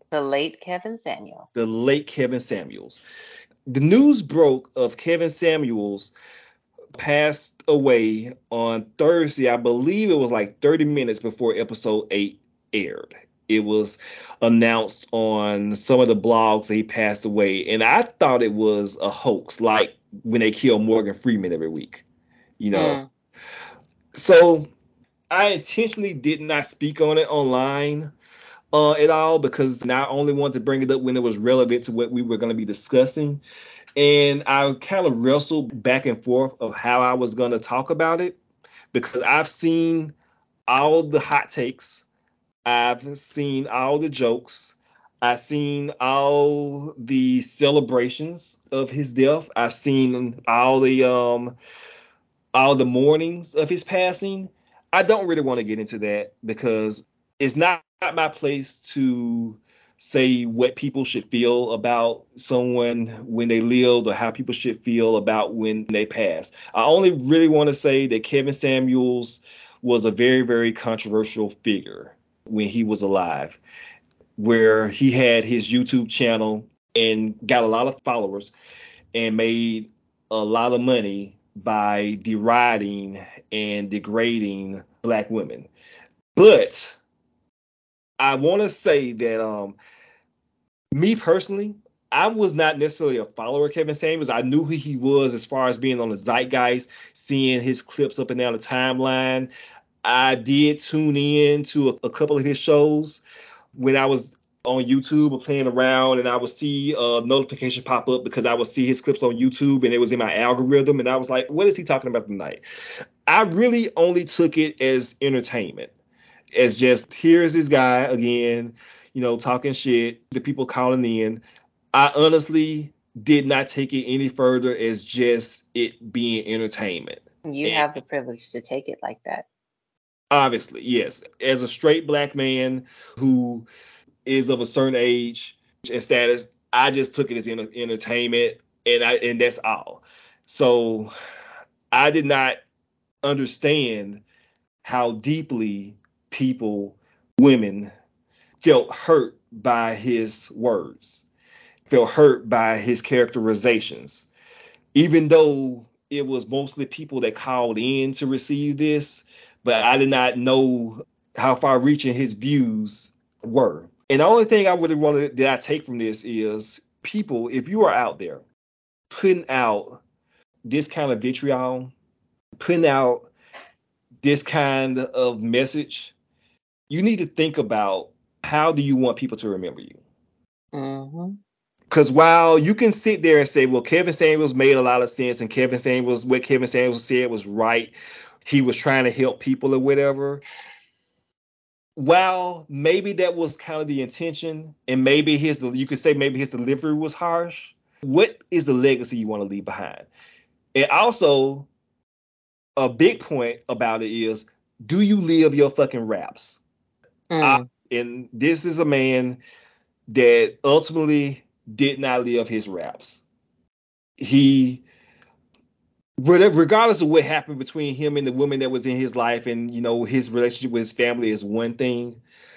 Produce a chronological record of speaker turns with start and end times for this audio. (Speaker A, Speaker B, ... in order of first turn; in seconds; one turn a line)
Speaker A: 0.1-1.5
Speaker B: 1.5-3.0
Speaker B: 3.7-6.1
Speaker B: 6.9-22.0
Speaker B: 22.6-23.0
Speaker A: 22.7-23.1
Speaker B: 24.1-24.7
Speaker B: 25.3-28.1
Speaker B: 28.7-33.4
Speaker B: 34.0-38.4
Speaker B: 38.9-40.1
Speaker B: 40.7-42.0
Speaker B: 42.6-51.5
Speaker B: 52.5-73.6
Speaker B: 74.4-78.5
Speaker B: 79.1-85.7
Speaker B: 86.3-87.0
Speaker B: 88.2-89.8
Speaker B: 90.9-99.5
Speaker B: 100.0-103.2
Speaker B: 103.8-112.6
Speaker B: 113.2-115.9
Speaker B: 116.5-127.9
Speaker A: 127.5-129.4
Speaker B: 130.3-133.7
Speaker B: 134.2-141.1
Speaker B: 141.9-142.6
Speaker B: 143.2-144.2
Speaker B: 144.8-147.9
Speaker B: 148.6-151.2
Speaker B: 151.9-154.3
Speaker B: 154.9-168.4
Speaker B: 169.1-170.0
Speaker B: 170.6-171.9
Speaker B: 172.6-173.3
Speaker B: 174.2-176.1
Speaker B: 176.9-180.0
Speaker A: 180.7-181.4
Speaker B: 181.9-187.9
Speaker B: 188.4-190.4
Speaker B: 191.9-200.1
Speaker B: 200.7-201.7
Speaker B: 202.8-206.6
Speaker A: 207.3-207.7
Speaker B: 207.4-209.4
Speaker B: 210.1-213.2
Speaker B: 214.2-214.8
Speaker B: 216.2-222.2